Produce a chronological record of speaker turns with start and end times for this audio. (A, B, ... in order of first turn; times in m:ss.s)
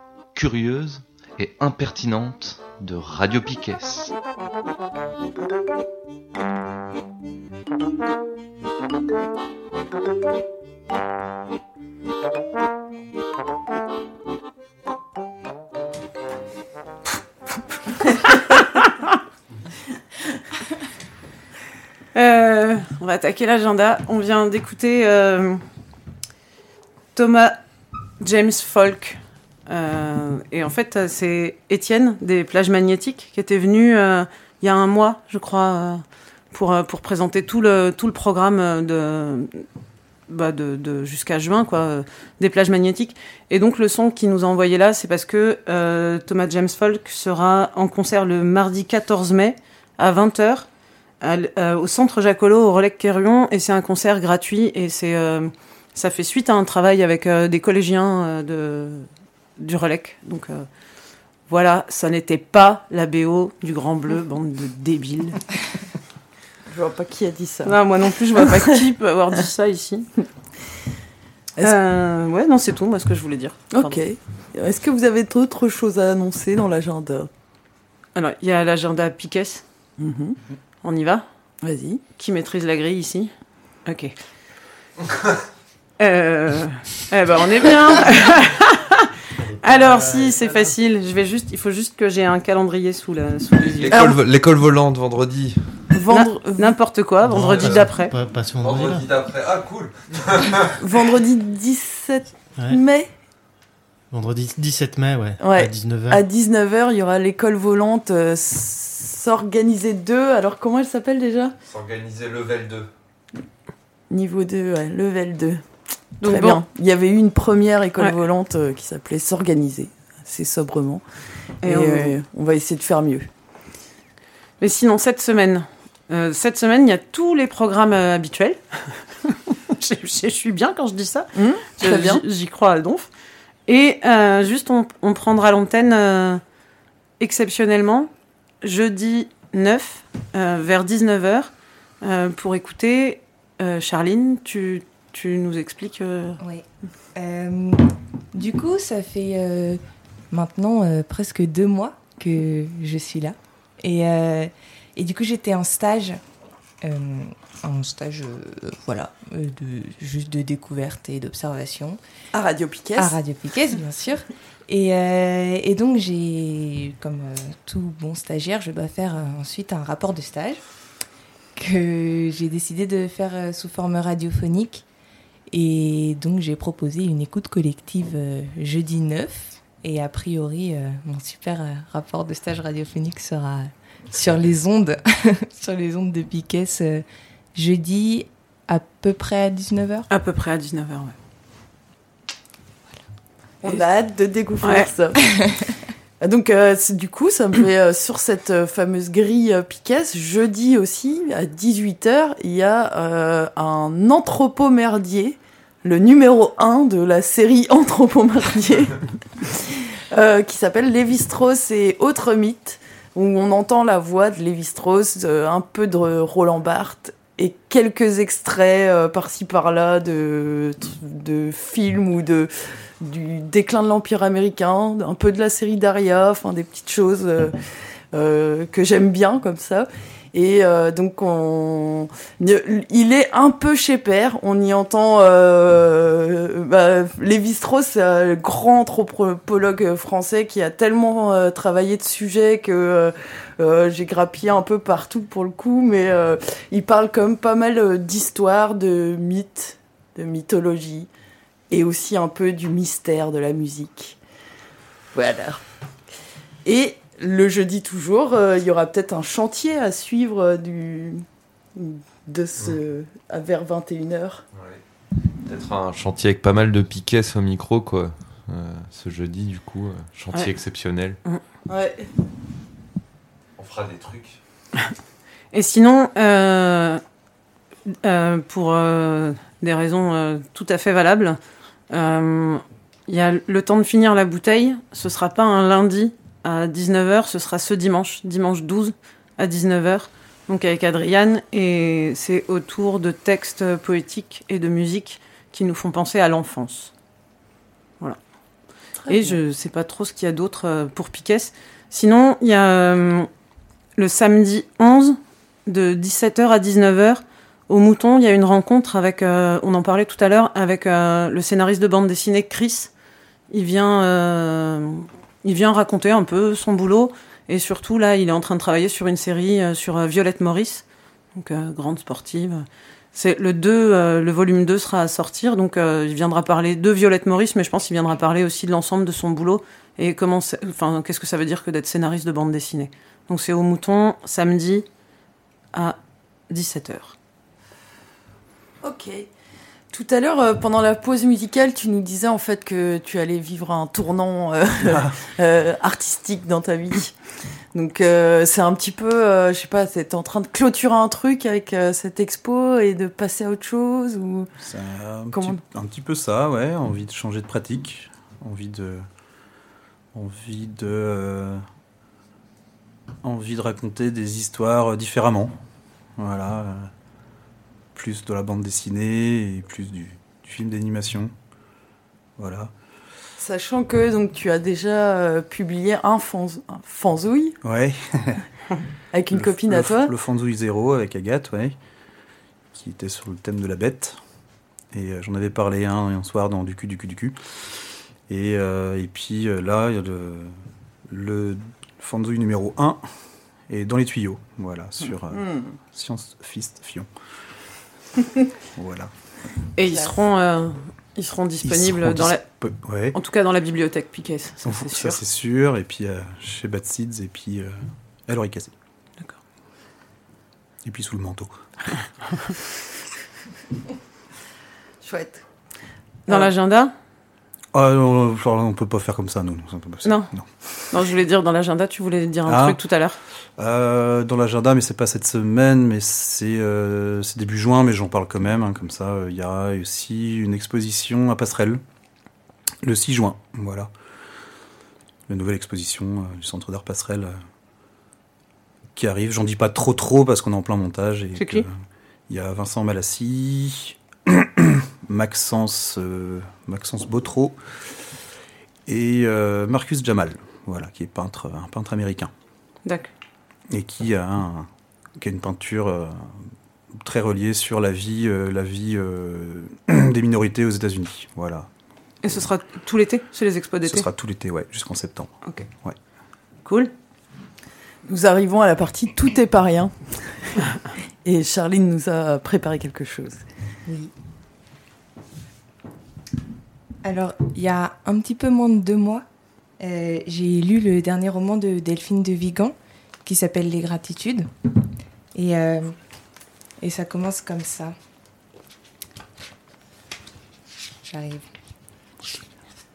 0:00.4-0:04.1 A
0:22.1-0:25.6 B
0:27.2-0:27.6 B
0:28.2-0:39.6 B
0:40.3-0:50.7 B
0:51.2-1:00.7 B
1:01.5-1:05.5 B
1:06.7-1:07.8 C
1:07.6-1:10.1 B
1:11.6-1:14.0 B
1:13.7-1:17.3 C
1:18.2-1:19.6 B
1:20.0-1:20.4 C
1:20.8-1:21.2 B
1:21.6-1:22.0 C
1:22.1-1:23.3 B
1:23.8-1:24.1 B
1:26.0-1:29.0 B
1:29.5-1:34.0 B
1:29.7-1:30.4 D
1:33.8-1:35.9 E
1:33.9-1:34.2 C
1:35.9-1:36.8 C
1:36.1-1:38.2 B
1:37.2-1:39.1 D
1:37.6-1:37.9 E
1:38.6-1:40.7 E
1:40.8-1:43.1 C
1:44.1-1:46.2 D
1:45.4-1:51.5 C
1:51.7-1:52.9 E
1:54.1-1:55.6 C
1:56.2-1:56.6 B
1:56.2-2:01.0 C
2:01.6-2:03.3 C
2:01.6-2:02.2 B
2:04.6-2:13.1 B
2:11.4-2:12.2 C
2:13.7-2:16.4 B
2:17.2-2:18.1 B
2:18.6-2:21.5 B
2:22.0-2:26.4 B
2:27.2-2:27.8 F
2:28.3-2:29.8 F
2:30.3-2:36.2 F
2:36.8-2:42.0 F
2:42.3-2:43.2 C
2:43.0-2:50.6 F
2:51.6-2:54.8 F
2:55.5-3:10.1 F
3:10.1-3:11.2 B
3:13.6-3:15.5 C
3:14.6-3:14.9 B
3:16.2-3:47.6 C
3:48.1-4:11.1 C
4:11.7-4:14.2 C
4:15.1-4:15.6 C
4:16.6-4:21.2 C
4:21.8-4:24.4 C
4:25.4-4:31.2 E
4:31.7-4:32.1 C
4:33.6-4:34.4 E
4:35.5-4:37.0 B
4:38.0-4:41.4 B
4:41.9-4:56.9 B
4:59.0-4:59.4 C
4:59.1-5:03.3 B
5:04.0-5:12.9 B
5:13.5-5:20.8 B
5:21.4-5:22.6 B
5:23.2-5:34.9 B
5:36.5-5:37.2 B
5:38.8-5:39.3 C
5:39.9-5:47.2 C
5:44.8-5:45.2 G
5:47.7-5:54.5 C
5:54.6-5:59.0 G
5:55.3-5:55.6 C
6:00.1-6:01.6 G
6:03.2-6:05.5 G
6:06.2-6:06.9 G
6:08.0-6:11.3 G
6:12.4-6:12.7 G
6:13.4-6:17.6 C
6:17.6-6:18.4 G
6:19.1-6:20.1 C
6:19.3-6:21.8 G
6:22.7-6:24.2 G
6:24.9-6:27.4 G
6:28.3-6:30.5 G
6:31.1-6:33.0 G
6:33.7-6:37.1 G
6:35.3-6:35.7 C
6:38.8-6:39.1 G
6:39.8-6:42.4 B
6:39.9-6:40.2 C
6:41.6-6:43.2 G
6:43.1-6:45.2 B
6:44.6-6:47.7 G
6:48.3-6:48.7 G
6:50.8-6:51.5 G
6:55.0-6:55.4 C
6:56.3-6:56.9 B
6:57.7-7:00.7 G
7:00.0-7:00.3 B
7:00.9-7:03.2 B
7:02.5-7:02.8 G
7:03.6-7:11.8 G
7:12.8-7:13.9 G
7:15.3-7:17.4 G
7:19.0-7:21.7 G
7:21.4-7:21.7 B
7:22.3-7:27.6 G
7:28.9-7:32.3 G
7:32.8-7:33.1 B
7:33.7-7:34.7 G
7:35.2-7:36.1 G
7:37.0-7:41.7 G
7:42.2-7:44.1 B
7:43.8-7:45.3 G
7:46.6-7:46.9 B
7:48.1-7:50.6 C
7:51.2-7:53.4 C
7:57.0-7:59.2 F
7:59.8-8:04.5 F
8:05.4-8:05.9 F
8:06.8-8:07.9 F
8:11.0-8:11.5 F